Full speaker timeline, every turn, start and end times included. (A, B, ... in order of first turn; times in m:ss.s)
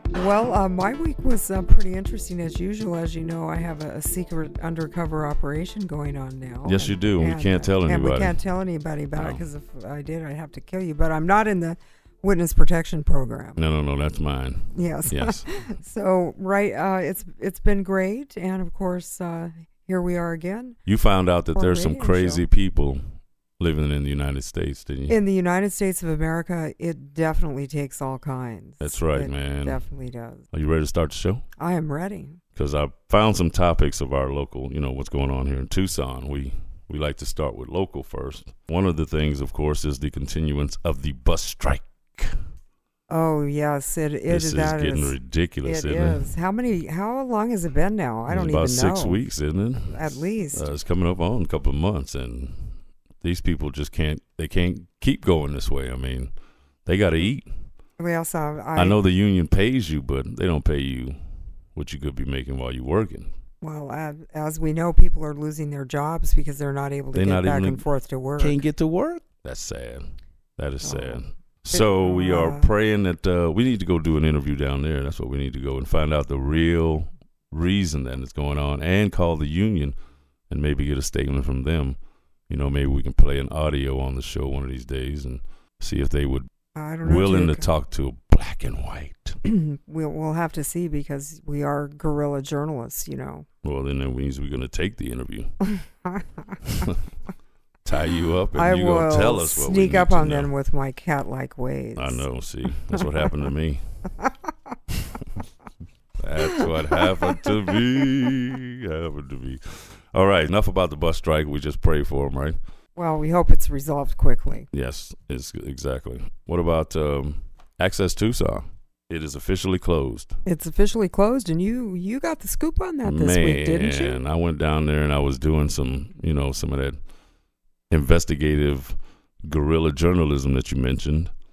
0:00.1-0:13.6 A
0:06.6-0:08.4 B
0:09.2-0:09.4 B
0:13.6-0:15.4 B
0:14.7-0:20.8 A
0:20.8-0:23.0 B
0:21.5-0:22.4 A
0:23.6-0:25.2 B
0:25.1-0:30.4 A
0:28.8-0:29.8 B
0:30.5-0:31.4 B
0:31.6-0:32.4 A
0:32.6-0:42.3 B
0:43.1-0:49.2 A
0:44.3-0:46.2 B
0:48.3-0:56.3 B
0:49.9-0:50.7 A
0:56.8-0:57.5 B
0:58.0-0:59.0 A
0:58.8-1:01.2 B
1:01.7-1:03.3 B
1:03.6-1:08.6 A
1:07.1-1:07.8 B
1:08.4-1:10.0 B
1:10.6-1:20.0 B
1:10.8-1:12.7 A
1:20.5-1:22.0 B
1:22.5-1:26.5 B
1:26.7-1:27.7 A
1:27.0-1:29.4 B
1:29.4-1:33.4 A
1:33.6-1:35.5 B
1:36.7-1:37.0 B
1:37.8-1:40.5 B
1:38.6-1:42.2 A
1:42.0-1:43.8 B
1:46.2-1:52.6 B
1:53.0-1:54.7 A
1:54.7-2:00.3 B
2:00.4-2:04.2 A
2:03.0-2:07.0 B
2:07.9-2:11.3 B